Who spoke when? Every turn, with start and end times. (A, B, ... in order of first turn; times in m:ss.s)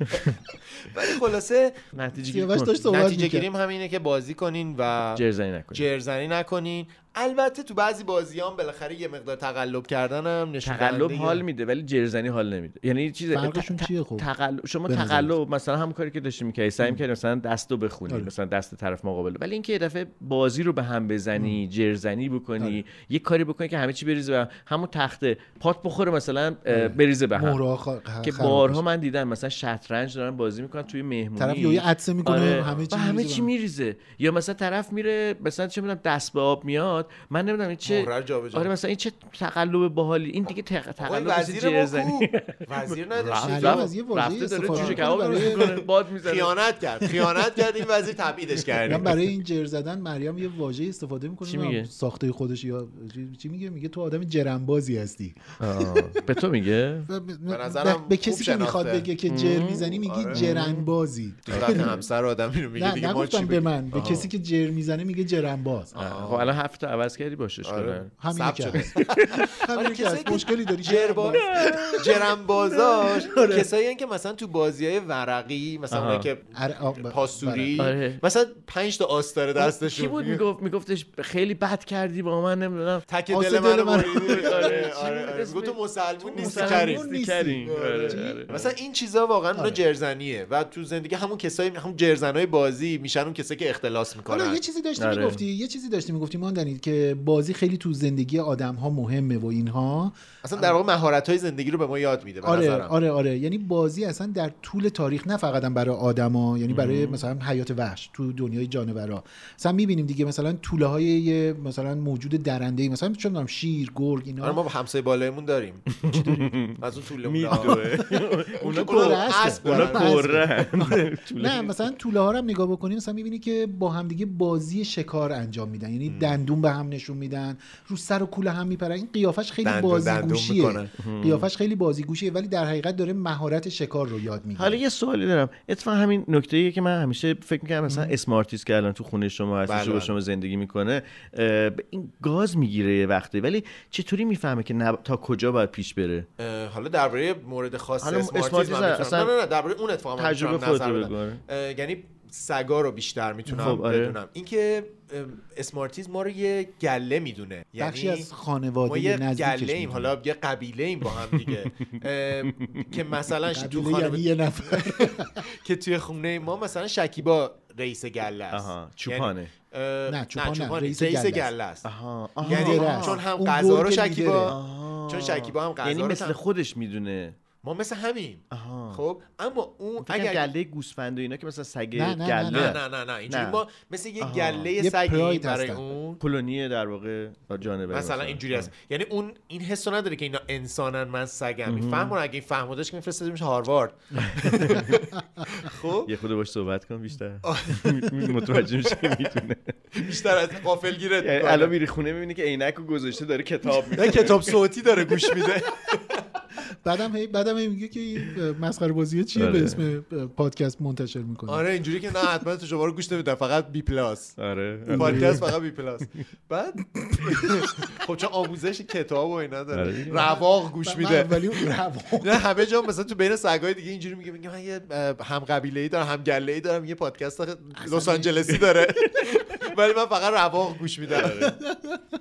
0:00.8-0:01.8 A
0:01.9-0:02.8 B
0:02.2-0:03.4 C
0:02.8-0:11.4 A
0:05.1-0:05.8 B
0:10.6-0:27.6 B
0:13.3-0:14.2 C
0:14.9-0:15.3 C
0:26.7-0:28.8 C
0:28.2-0:46.5 B
0:31.4-0:33.5 C
0:37.8-0:38.7 A
0:41.0-0:43.9 A
0:43.4-0:45.8 C
0:44.6-0:45.7 A
0:46.2-0:49.2 A
0:48.8-0:56.0 C
0:51.4-0:51.9 B
0:55.6-0:57.1 B
0:57.1-1:01.9 C
0:57.5-0:59.1 A
0:59.2-1:00.9 B
1:00.0-1:00.5 A
1:01.5-1:04.3 A
1:01.5-1:02.0 B
1:02.8-1:05.9 C
1:05.9-1:06.5 A
1:05.9-1:08.1 B
1:07.6-1:09.0 A
1:08.2-1:08.9 C
1:09.0-1:09.5 B
1:09.7-1:12.3 C
1:09.7-1:11.4 A
1:11.3-1:13.4 B
1:12.0-1:16.5 A
1:13.2-1:13.6 C
1:15.9-1:16.3 B
1:16.6-1:17.8 C
1:17.0-1:20.4 A
1:17.8-1:18.2 B
1:19.6-1:23.1 B
1:23.1-1:27.1 A
1:23.3-1:25.1 C
1:24.1-1:28.7 B
1:26.3-1:28.5 C
1:27.6-1:34.6 A
1:34.3-1:40.8 C
1:35.0-1:35.4 B
1:40.4-1:42.9 A
1:42.4-1:54.6 C
1:46.7-1:47.2 B
1:54.4-1:56.0 A
1:56.1-1:56.6 C
1:56.1-2:01.7 B
1:56.8-1:58.0 A
1:57.5-1:58.1 C
1:58.6-2:00.4 A
1:58.6-2:14.8 C
2:06.1-2:06.3 A
2:09.6-2:10.9 A
2:11.0-2:11.5 B
2:14.6-2:26.2 B
2:17.9-2:18.1 C
2:19.7-2:20.1 A
2:26.4-2:38.3 A
2:28.0-2:29.3 B
2:30.2-2:31.4 B
2:33.5-2:33.8 C
2:33.6-2:34.2 B
2:37.8-2:40.1 C
2:38.8-2:51.8 A
2:42.6-2:43.1 B
2:43.5-2:45.4 C
2:48.5-2:49.5 B
2:50.1-2:51.5 C
2:51.8-2:53.2 B
2:52.4-2:54.5 C
2:52.4-2:56.4 A
2:54.5-2:57.4 B
2:57.6-3:00.5 A
2:58.5-2:59.0 B
3:00.0-3:03.6 B
3:01.9-3:02.8 C
3:02.5-3:06.2 A
3:04.2-3:04.7 B
3:04.8-3:05.9 C
3:06.2-3:08.7 B
3:07.9-3:16.1 A
3:11.7-3:12.2 B
3:14.2-3:15.0 B
3:16.0-3:20.0 B
3:17.4-3:18.1 A
3:18.8-3:19.2 A
3:19.9-3:21.7 A
3:21.2-3:24.6 B
3:23.9-3:26.2 A
3:26.8-3:31.6 C
3:29.3-3:29.8 B
3:31.5-3:34.4 A
3:34.4-3:35.4 B
3:34.9-3:35.5 C
3:34.9-3:41.6 A
3:39.7-3:40.3 B
3:40.1-3:42.6 C
3:42.2-3:51.5 A
3:47.8-3:49.1 C
3:51.1-3:51.6 B
3:51.2-3:52.0 C